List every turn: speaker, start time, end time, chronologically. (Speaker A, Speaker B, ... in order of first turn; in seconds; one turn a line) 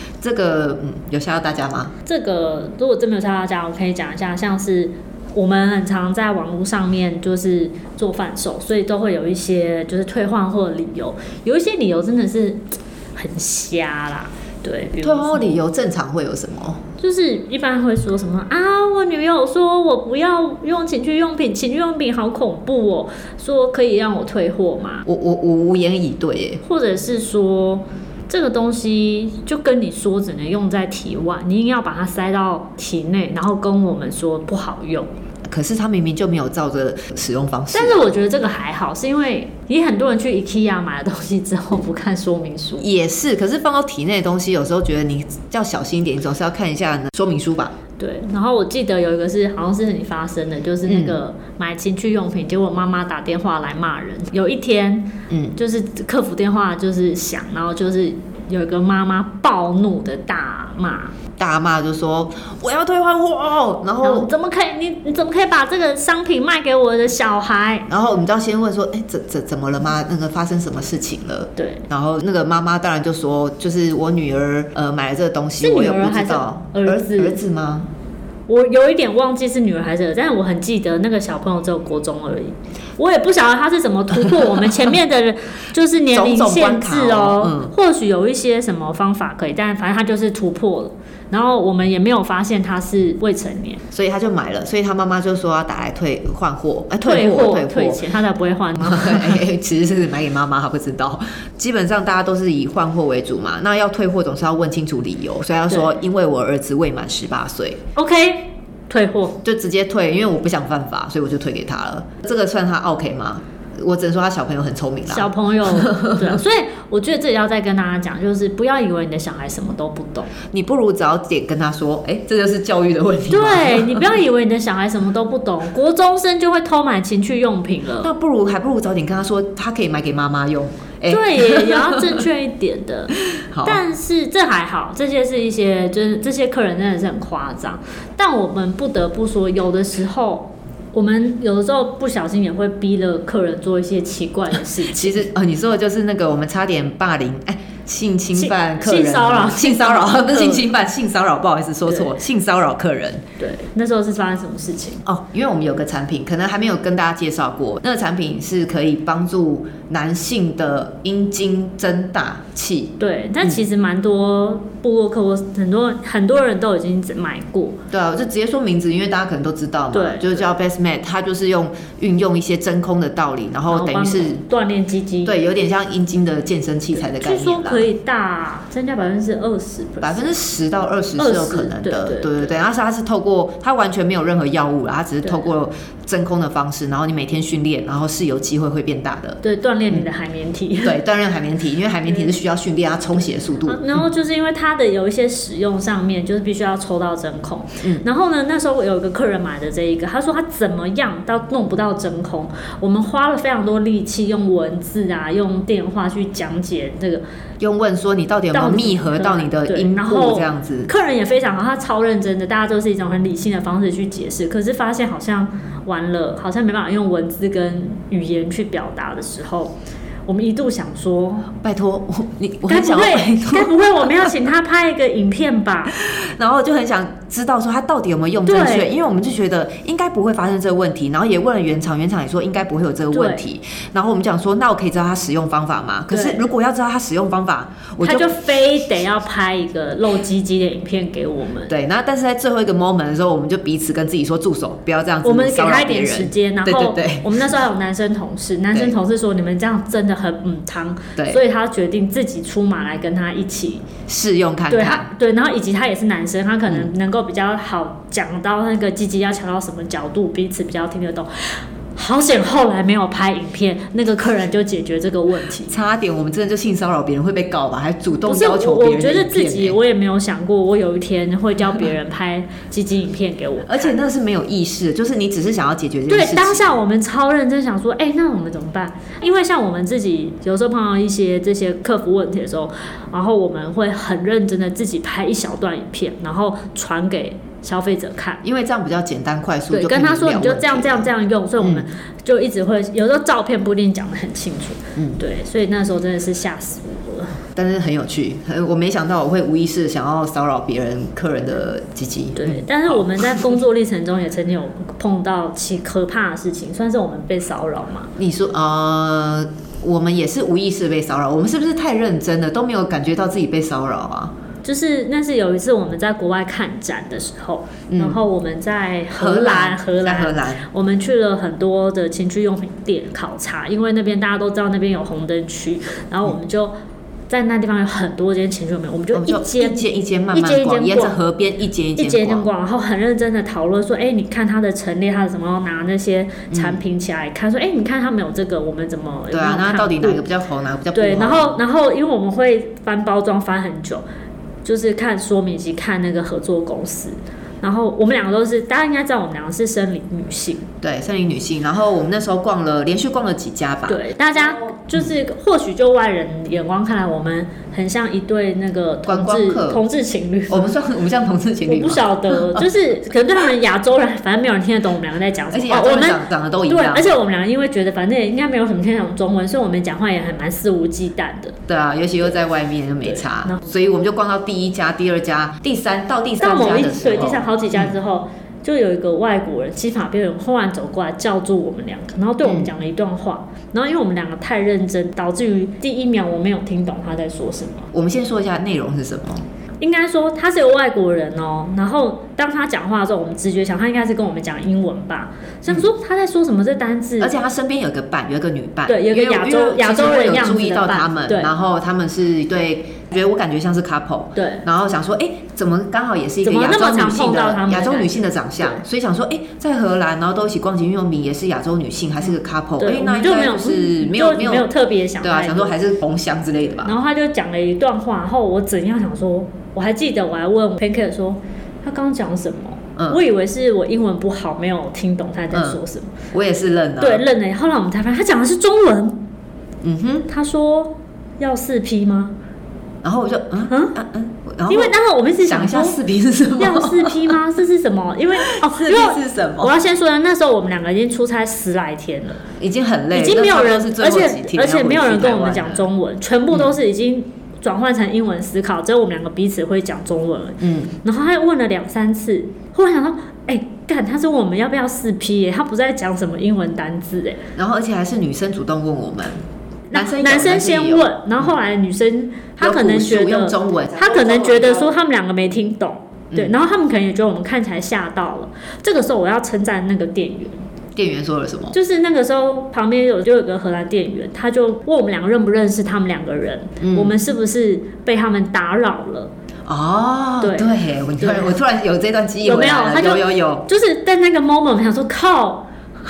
Speaker A: 0.2-1.9
Speaker B: 2.0-12.6
Speaker B: 13.2-15.6
Speaker A: 15.0-16.8
Speaker B: 17.0-25.0
Speaker A: 25.1-26.6
Speaker B: 26.6-35.1
Speaker A: 35.5-38.1
Speaker B: 37.7-42.9
Speaker A: 42.8-47.7
Speaker B: 48.0-61.1
Speaker A: 50.9-51.2
Speaker A: 55.3-55.5
Speaker A: 61.4-64.3
Speaker B: 64.0-67.9
Speaker A: 67.9-77.9
Speaker B: 71.6-71.8
Speaker B: 75.6-77.4
Speaker B: 78.5-93.8
Speaker A: 86.1-87.7
Speaker A: 93.9-98.0
Speaker B: 97.0-99.4
Speaker A: 98.8-107.8
Speaker B: 107.9-109.4
Speaker A: 109.4-116.4
Speaker B: 115.1-120.3
Speaker A: 120.5-124.2
Speaker B: 123.3-128.1
Speaker A: 128.0-132.2
Speaker B: 131.1-145.3
Speaker A: 133.4-133.8
Speaker A: 144.9-153.2
Speaker B: 148.3-150.7
Speaker B: 151.9-152.1
Speaker B: 153.4-155.0
Speaker A: 155.1-163.6
Speaker B: 163.0-167.8
Speaker A: 167.9-174.4
Speaker B: 169.9-170.5
Speaker B: 173.7-175.4
Speaker A: 175.2-177.9
Speaker B: 176.9-180.3
Speaker A: 180.0-189.4
Speaker B: 181.2-182.6
Speaker B: 189.4-191.0
Speaker A: 190.8-194.0
Speaker B: 192.1-192.3
Speaker B: 193.7-207.2
Speaker A: 207.6-210.9
Speaker B: 208.5-219.8
Speaker B: 220.3-221.5
Speaker A: 221.6-224.3
Speaker B: 222.7-225.9
Speaker A: 225.9-238.3
Speaker B: 228.4-228.9
Speaker B: 233.1-233.4
Speaker B: 236.1-236.4
Speaker B: 238.0-241.7
Speaker A: 241.7-247.4
Speaker B: 245.2-253.8
Speaker A: 254.1-255.1
Speaker B: 254.7-265.8
Speaker A: 265.7-269.8
Speaker B: 268.2-274.0
Speaker A: 273.6-276.7
Speaker B: 276.1-288.4
Speaker A: 288.4-291.9
Speaker B: 289.7-297.4
Speaker A: 297.6-303.6
Speaker B: 302.4-308.1
Speaker A: 308.2-314.3
Speaker B: 314.6-326.7
Speaker A: 317.9-318.2
Speaker A: 319.1-320.6
Speaker B: 327.3-331.2
Speaker A: 329.1-332.5
Speaker B: 332.0-340.2
Speaker A: 336.5-336.8
Speaker A: 339.3-341.6
Speaker B: 340.9-344.0
Speaker B: 344.6-350.7
Speaker A: 350.8-355.1
Speaker B: 353.9-360.7
Speaker A: 359.1-359.8
Speaker A: 360.5-362.6
Speaker B: 361.6-371.6
Speaker A: 365.5-367.1
Speaker A: 371.7-377.9
Speaker B: 373.0-373.6
Speaker B: 376.4-387.9
Speaker A: 382.4-382.7
Speaker A: 387.9-389.4
Speaker B: 389.8-397.3
Speaker A: 397.2-414.7
Speaker B: 398.9-401.5
Speaker B: 404.4-404.6
Speaker B: 406.4-408.8
Speaker B: 412.8-415.7
Speaker A: 415.2-416.9
Speaker B: 416.8-426.1
Speaker A: 425.5-425.8
Speaker A: 426.3-427.2
Speaker B: 427.0-429.2
Speaker A: 429.8-430.3
Speaker B: 430.3-432.3
Speaker A: 433.0-437.4
Speaker B: 433.7-433.9
Speaker B: 434.7-436.0
Speaker B: 436.6-442.4
Speaker A: 438.4-439.7
Speaker A: 442.6-445.9
Speaker B: 443.1-457.4
Speaker A: 450.6-450.9
Speaker A: 457.6-459.4
Speaker B: 459.9-470.6
Speaker A: 459.9-461.5
Speaker A: 462.6-464.9
Speaker A: 470.9-471.8
Speaker B: 471.7-479.3
Speaker A: 476.8-477.2
Speaker A: 479.7-483.6
Speaker B: 480.4-481.6
Speaker B: 482.4-485.7